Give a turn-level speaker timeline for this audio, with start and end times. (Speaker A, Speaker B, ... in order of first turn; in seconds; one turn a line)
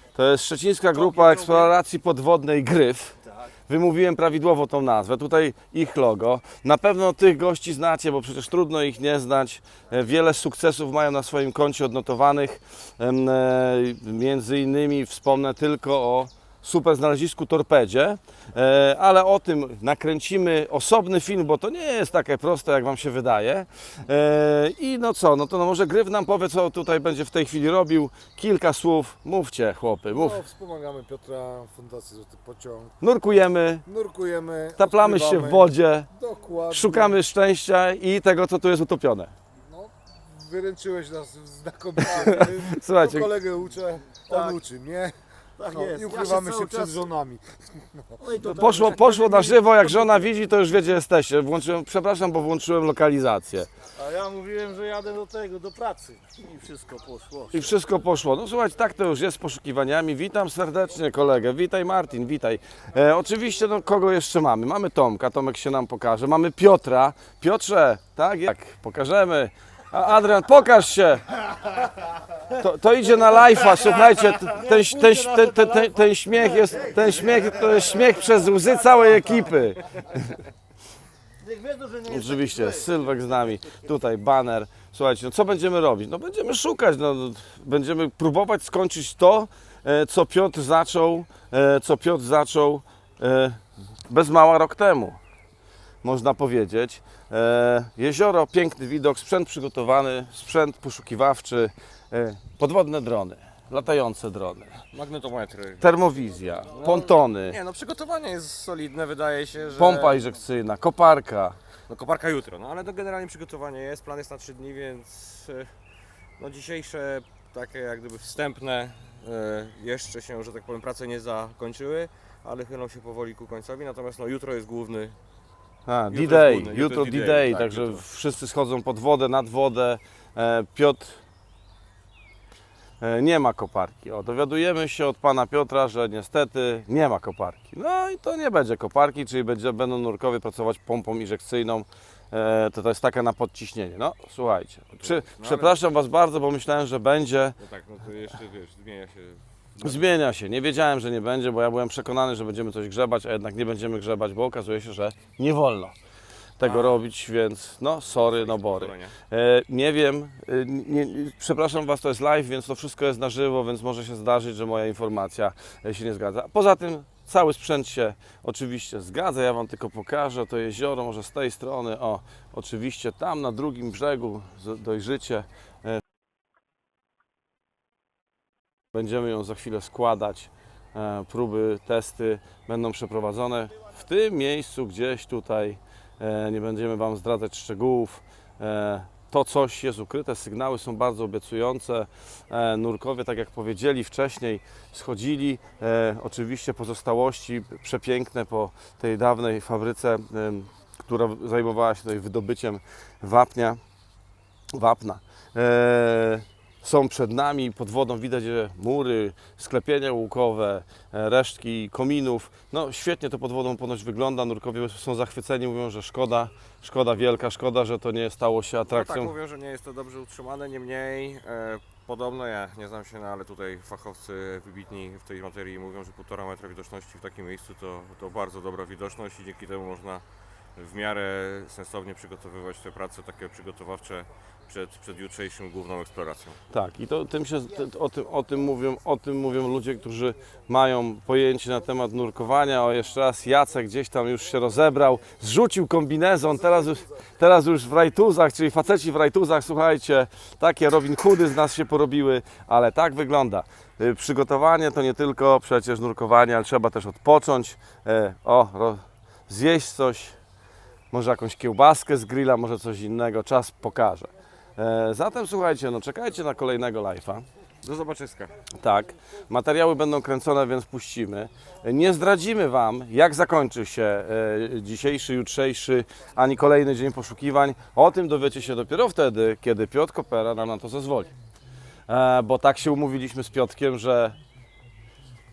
Speaker A: 0.1-30.4
Speaker B: 1.2-1.6
Speaker B: 30.1-33.0
Speaker A: 33.0-33.9
Speaker B: 33.9-37.2
Speaker A: 34.8-36.1
Speaker A: 36.7-39.3
Speaker B: 39.7-48.7
Speaker A: 42.0-43.3
Speaker C: 44.3-44.6
Speaker C: 45.6-47.1
Speaker C: 48.2-50.2
Speaker A: 48.5-53.7
Speaker C: 54.0-57.8
Speaker A: 57.5-71.4
Speaker A: 72.4-80.5
Speaker C: 73.5-79.6
Speaker C: 81.4-83.2
Speaker A: 82.0-95.2
Speaker A: 96.0-104.8
Speaker D: 104.9-106.0
Speaker A: 105.8-107.6
Speaker D: 106.7-110.3
Speaker A: 109.8-111.6
Speaker D: 111.9-115.7
Speaker D: 116.4-125.2
Speaker A: 125.9-131.2
Speaker D: 126.1-128.0
Speaker A: 133.0-147.6
Speaker D: 144.9-145.8
Speaker D: 147.6-150.1
Speaker A: 149.8-155.9
Speaker A: 156.6-176.0
Speaker D: 156.6-157.0
Speaker D: 158.1-159.2
Speaker A: 178.9-203.8
Speaker A: 204.7-219.3
Speaker D: 218.8-230.2
Speaker D: 230.8-236.6
Speaker A: 236.7-260.4
Speaker A: 261.1-267.4
Speaker D: 267.8-268.5
Speaker A: 268.7-281.3
Speaker A: 282.1-284.4